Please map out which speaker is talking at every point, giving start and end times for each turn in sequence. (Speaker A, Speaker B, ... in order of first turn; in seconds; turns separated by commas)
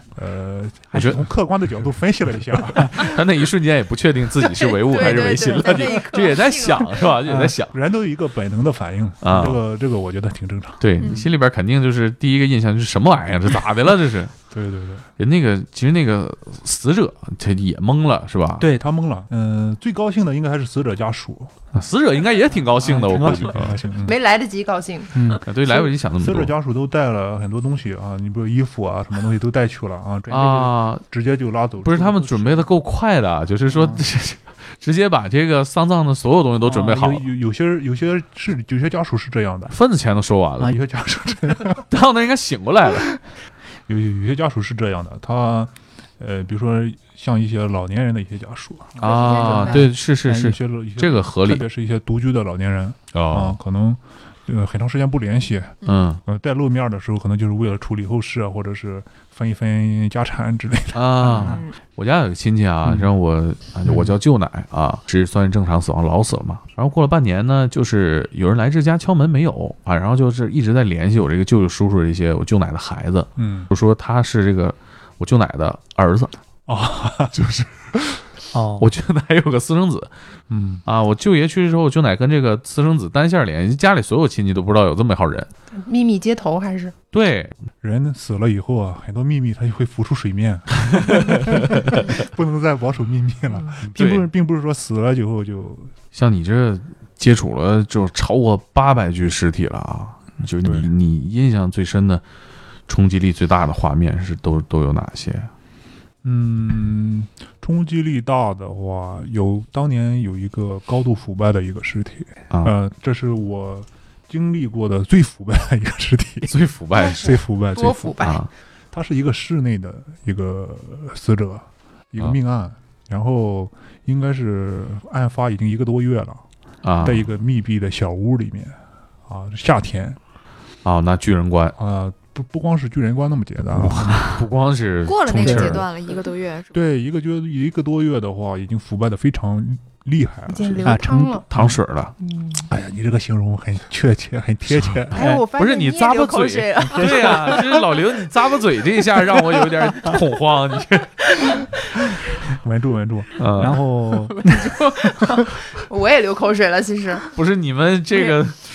Speaker A: 0.1-3.2, Speaker B: 0.9-1.2, Speaker B: 2.9-7.7, Speaker C: 4.4-7.1, Speaker D: 4.8-6.8, Speaker E: 7.2-7.6, Speaker A: 7.7-10.8, Speaker B: 9.2-9.6, Speaker B: 10.8-14.3, Speaker D: 11.0-11.3, Speaker A: 14.5-15.1, Speaker B: 15.2-18.7, Speaker E: 18.6-18.9, Speaker A: 18.6-21.6, Speaker B: 21.7-23.8, Speaker E: 22.8-23.7, Speaker A: 22.8-24.2, Speaker C: 24.0-25.8, Speaker E: 25.1-25.4, Speaker B: 25.4-26.5, Speaker A: 25.7-32.7, Speaker B: 30.3-31.0, Speaker B: 31.8-37.2, Speaker A: 33.7-34.0, Speaker A: 36.7-39.8, Speaker E: 36.7-37.0, Speaker B: 39.7-40.8, Speaker A: 40.6-41.8, Speaker B: 41.9-43.1, Speaker A: 43.9-61.6, Speaker D: 49.0-49.8, Speaker B: 49.0-51.6, Speaker E: 49.7-50.6, Speaker B: 53.1-53.6, Speaker B: 55.9-56.2, Speaker B: 60.9-76.3, Speaker C: 61.3-61.7, Speaker A: 63.9-64.1, Speaker A: 73.4-73.7, Speaker A: 76.7-77.4, Speaker B: 77.3-77.7, Speaker E: 78.5-78.9, Speaker B: 78.8-80.1, Speaker A: 80.5-80.8, Speaker B: 80.9-85.5, Speaker C: 85.7-87.0, Speaker B: 87.1-87.6, Speaker A: 87.8-95.9, Speaker B: 91.1-92.0, Speaker B: 93.9-94.3, Speaker B: 96.1-102.2, Speaker B: 102.9-105.5, Speaker A: 106.2-126.4, Speaker B: 116.5-117.4, Speaker C: 117.0-118.4, Speaker B: 118.2-118.5, Speaker B: 126.8-127.3, Speaker A: 127.0-130.2, Speaker B: 130.8-131.8, Speaker A: 131.8-134.3, Speaker B: 133.8-135.8, Speaker D: 135.1-136.8, Speaker E: 135.5-135.7, Speaker A: 136.7-141.7, Speaker C: 140.5-141.5, Speaker E: 140.8-141.4, Speaker B: 141.5-142.1, Speaker C: 142.2-142.7, Speaker A: 142.7-145.3, Speaker C: 145.1-147.8, Speaker E: 145.2-145.4, Speaker B: 145.6-151.2, Speaker E: 146.9-147.4, Speaker A: 152.4-154.4, Speaker B: 153.4-153.8, Speaker E: 153.6-154.7, Speaker C: 154.3-157.3, Speaker B: 157.3-158.6, Speaker D: 158.1-158.4